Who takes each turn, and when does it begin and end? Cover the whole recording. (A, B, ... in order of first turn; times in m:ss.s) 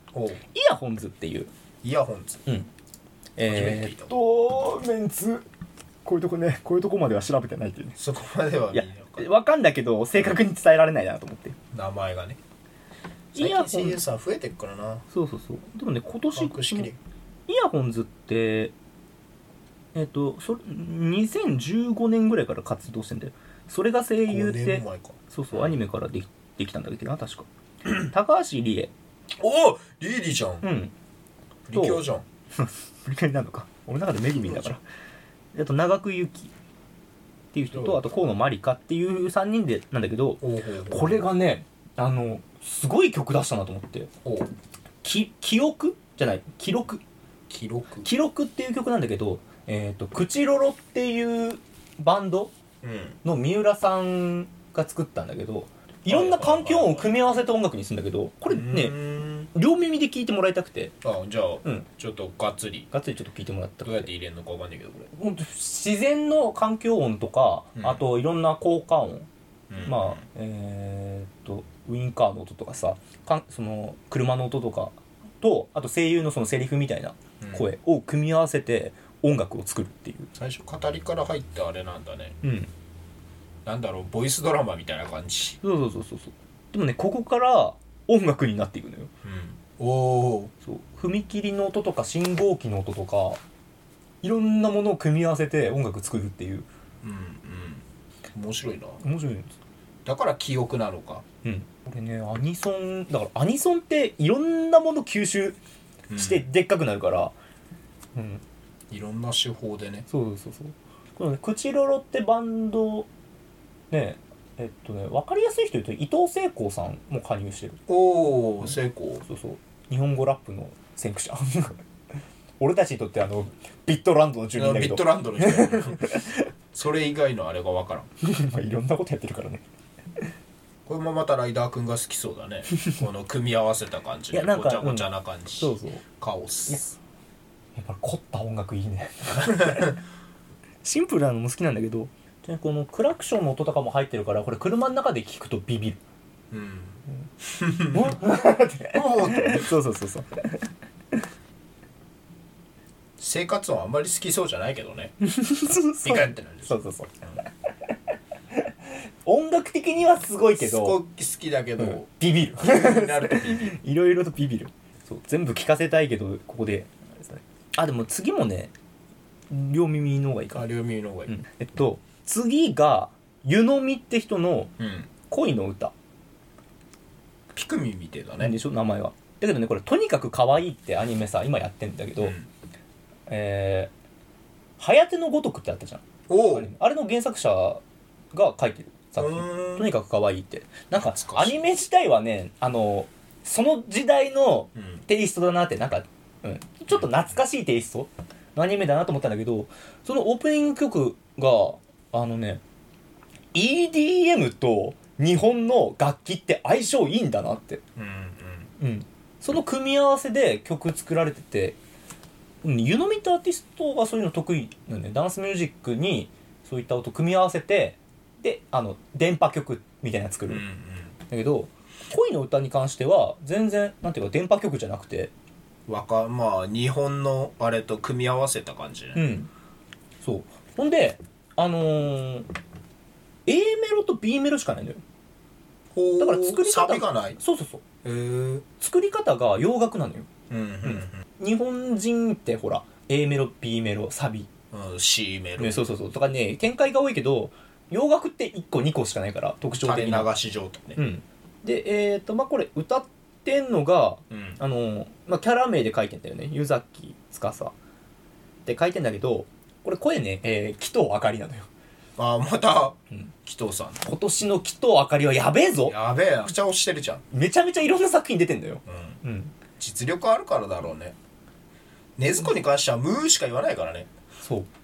0:00.1-0:00.4 A
0:00.5-0:01.5 B
0:01.8-0:02.5 A
0:02.5-0:02.7 B
0:03.4-0:05.4 B
0:03.4-0:04.1 A
0:06.0-0:08.0 B
0:08.0-0:09.3 A
0:08.7-0:11.6 B
0:11.7-0:12.4 A
0:13.3-0:15.0 A
0:13.4-0:14.0 B
0:15.1-0:16.9 B
0:16.3-0:17.0 A
0:17.5-0:18.7 B
0:19.9-0:28.9 B
0:24.3-0:25.8 A
0:29.4-0:30.7 A
0:30.6-0:30.9 B
0:31.7-0:32.2 A
0:31.7-0:34.8 B
0:34.4-0:34.7 A
0:35.5-0:36.5 B
0:37.5-0:44.1 B
0:37.7-0:38.0 A
0:40.4-0:41.2 A
0:44.2-0:44.5 A
0:45.0-0:47.0 B
0:47.5-0:48.1 A
0:48.0-0:52.5 B
0:52.8-0:53.2 A
0:53.2-1:01.0 B
0:56.1-0:57.1 A
0:58.5-0:59.5 A
1:01.0-1:02.9 A
1:02.9-1:04.1 B
1:03.8-1:05.1 A
1:05.1-1:09.3 B
1:07.8-1:08.0 A
1:09.7-1:10.2 A
1:09.8-1:20.3 B
1:17.4-1:17.7 A
1:20.4-1:22.4 A
1:22.4-1:22.7 B
1:23.7-1:25.6 A
1:25.6-1:29.1 B
1:29.2-1:30.5 A
1:30.6-1:33.4 B
1:34.2-1:36.7 B
1:37.0-1:39.0 A
1:39.0-1:39.5 B
1:40.0-1:41.2 A
1:41.4-1:45.6 B
1:46.1-1:46.4 A
1:46.1-1:47.4 B
1:48.2-1:48.4 B
1:48.9-1:50.1 A
1:50.1-1:53.1 B
1:53.9-1:57.8 B
1:57.9-1:59.2 A
1:59.3-2:01.8 B
2:02.6-2:06.5 B
2:04.6-2:08.1 A
2:08.2-2:09.6 B
2:10.9-2:17.0 A
2:14.3-2:16.0 B
2:17.8-2:20.0 B
2:20.8-2:26.0 B
2:26.5-2:28.2 A
2:27.9-2:30.6 B
2:28.9-2:29.8 A
2:33.2-2:35.1 A
2:35.2-2:37.2 B
2:36.0-2:37.4 A
2:39.2-2:41.0 B
2:40.6-2:43.8 A
2:41.8-2:48.7 B
2:49.5-2:50.7 B
2:50.5-2:51.3 A
2:51.3-2:54.7 B
2:54.8-2:55.1 A
2:55.3-2:55.9 B
2:57.5-2:58.6 A
2:58.4-3:02.4 B
3:02.2-3:02.5 A
3:03.3-3:03.9 B
3:04.8-3:07.8 B
3:06.3-3:06.7 A
3:08.3-3:22.6 B
3:09.2-3:09.9 A
3:11.0-3:11.6 A
3:14.8-3:15.0 A
3:23.5-3:27.8 B
3:28.0-3:28.7 A
3:28.8-3:31.8 B
3:32.6-3:40.7 B
3:40.5-3:41.1 A
3:41.3-3:45.3 B
3:45.9-3:49.2 A
3:49.2-3:49.5 B
3:50.2-3:52.5 B
3:53.5-3:55.0 B
3:55.9-3:57.4 A
3:56.2-3:57.8 B
3:58.0-3:58.6 A
3:58.8-4:00.3 B
4:00.5-4:01.2 A
4:00.8-4:04.5 B
4:04.7-4:05.9 A
4:05.6-4:10.3 B
4:09.8-4:11.0 A
4:11.0-4:17.7 B
4:14.3-4:14.6 A
4:18.7-4:21.7 B
4:22.2-4:24.0 A
4:24.0-4:26.0 B
4:25.9-4:27.2 A
4:27.3-4:29.5 B
4:28.9-4:29.2 A
4:29.8-4:31.2 A
4:32.2-4:34.1 A
4:34.4-4:34.7 B